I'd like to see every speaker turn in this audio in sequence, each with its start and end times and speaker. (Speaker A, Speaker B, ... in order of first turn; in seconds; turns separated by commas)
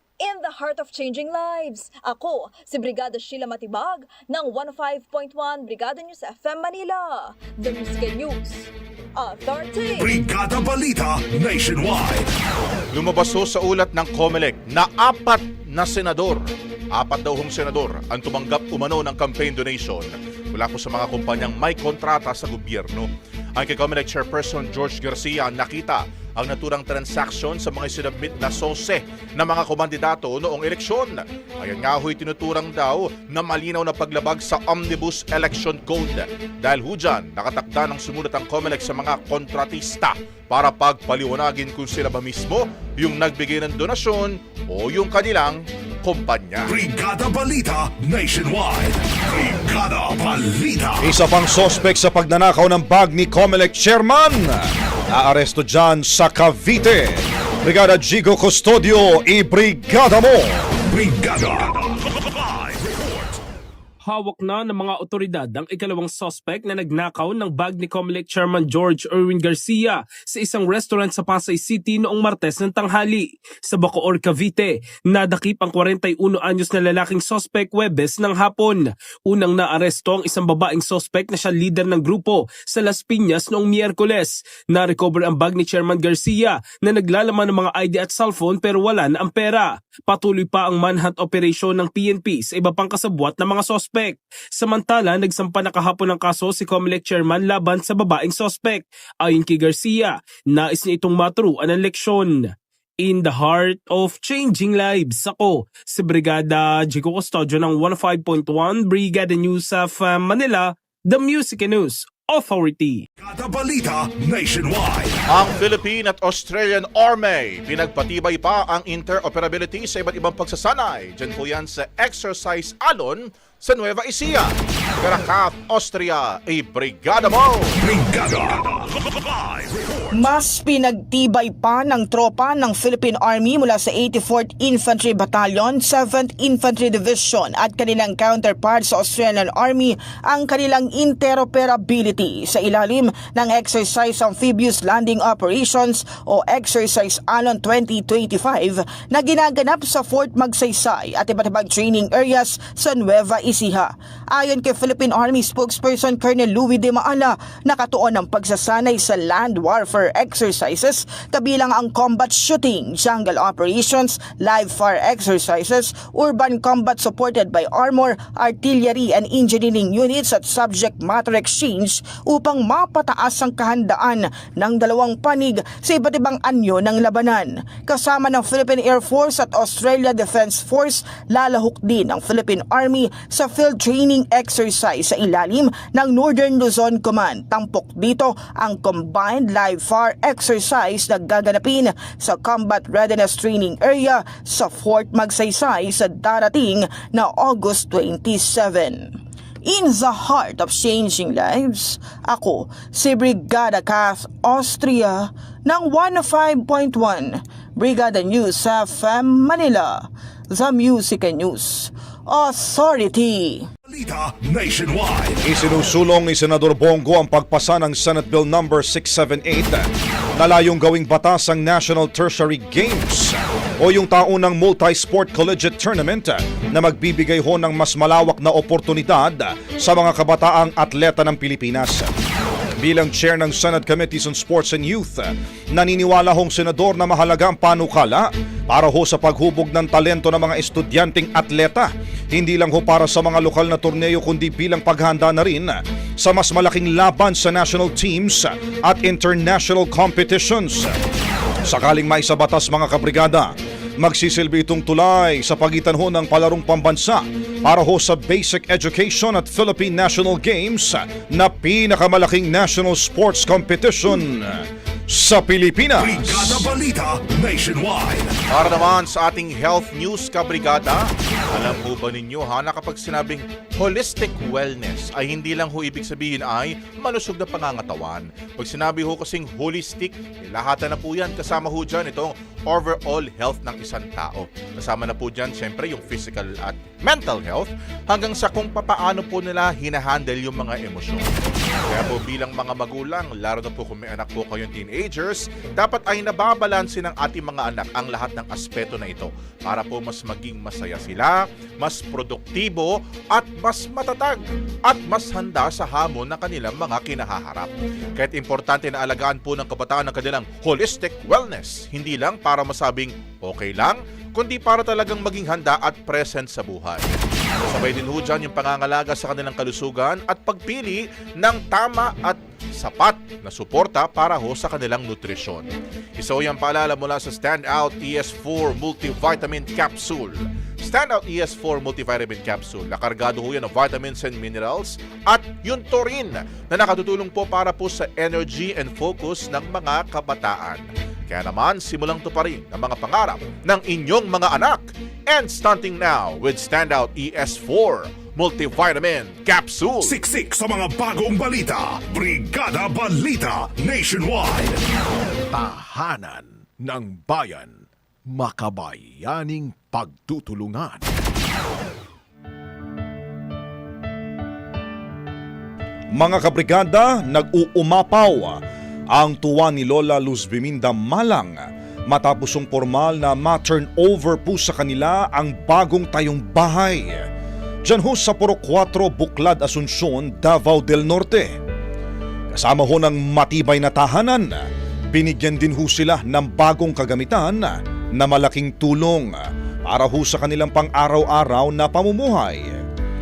Speaker A: 0.2-8.7, Speaker A: 9.2-10.0, Speaker B: 10.0-12.3, Speaker C: 12.9-46.7, Speaker B: 46.6-51.1, Speaker D: 51.0-60.5, Speaker B: 60.9-63.3, Speaker E: 64.0-113.0, Speaker B: 113.2-115.2, Speaker C: 115.3-127.8, Speaker B: 127.8-130.1, Speaker F: 130.1-213.7, Speaker B: 213.9-215.4, Speaker D: 215.4-232.1, Speaker D: 232.8-250.9, Speaker D: 251.7-266.7, Speaker B: 266.0-268.3, Speaker C: 268.5-291.3, Speaker C: 291.9-317.1, Speaker C: 317.6-350.2, Speaker B: 350.0-354.8, Speaker G: 355.5-361.0, Speaker D: 366.1-368.6, Speaker D: 369.1-377.2, Speaker D: 377.8-381.5, Speaker D: 382.5-389.3, Speaker D: 389.9-392.8